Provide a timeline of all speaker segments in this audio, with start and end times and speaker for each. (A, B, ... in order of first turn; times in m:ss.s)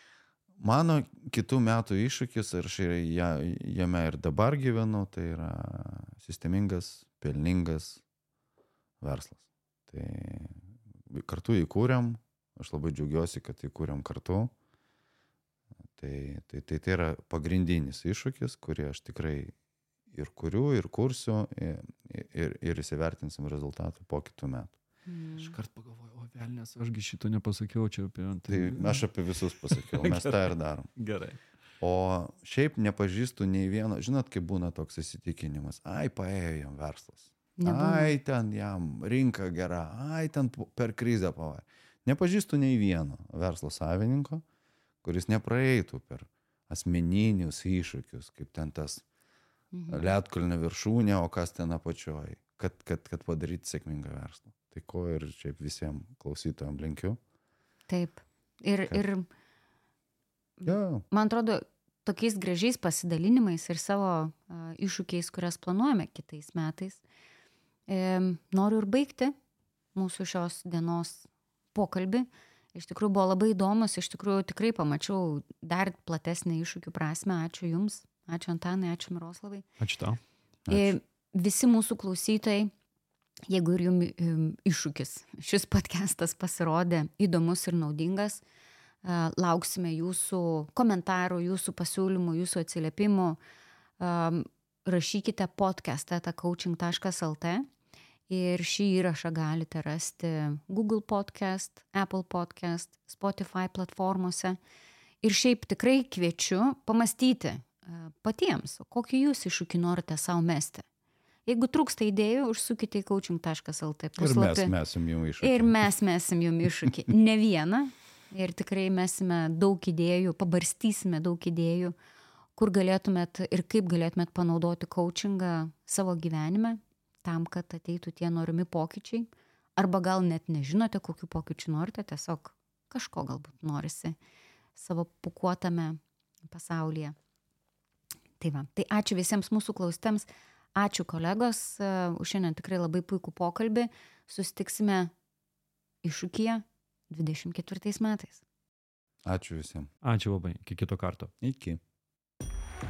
0:00.6-0:08.0 A
0:09.0-0:14.5 A
0:16.0-0:19.5 A
0:20.1-0:24.8 A
0:25.1-0:25.6 B
0:25.4-0:29.1 C
0:28.5-0:30.9 A
0:29.7-0:30.4 C
0:31.0-0:31.4 C
0:31.8-0:44.4 A
0:37.6-0:38.2 B
0:45.0-0:49.0 A
0:49.7-0:50.0 B
0:49.9-0:57.2 A
0:57.9-0:59.3 B
1:00.6-1:07.0 B
1:00.6-1:01.0 A
1:07.9-1:09.4 B
1:10.0-1:19.7 B
1:19.8-1:20.2 C
1:20.7-1:20.9 A
1:20.7-1:22.7 B
1:23.5-1:28.4 B
1:29.0-1:33.4 B
1:34.0-1:37.7 B
1:38.3-1:44.6 B
1:45.2-1:50.8 B
1:51.5-1:54.7 B
1:54.2-1:55.8 A
1:55.4-2:02.0 B
2:02.6-2:14.2 B
2:14.8-2:17.2 B
2:18.4-2:25.1 B
2:26.0-2:28.4 B
2:29.2-2:29.9 A
2:30.0-2:31.3 C
2:31.4-2:31.8 A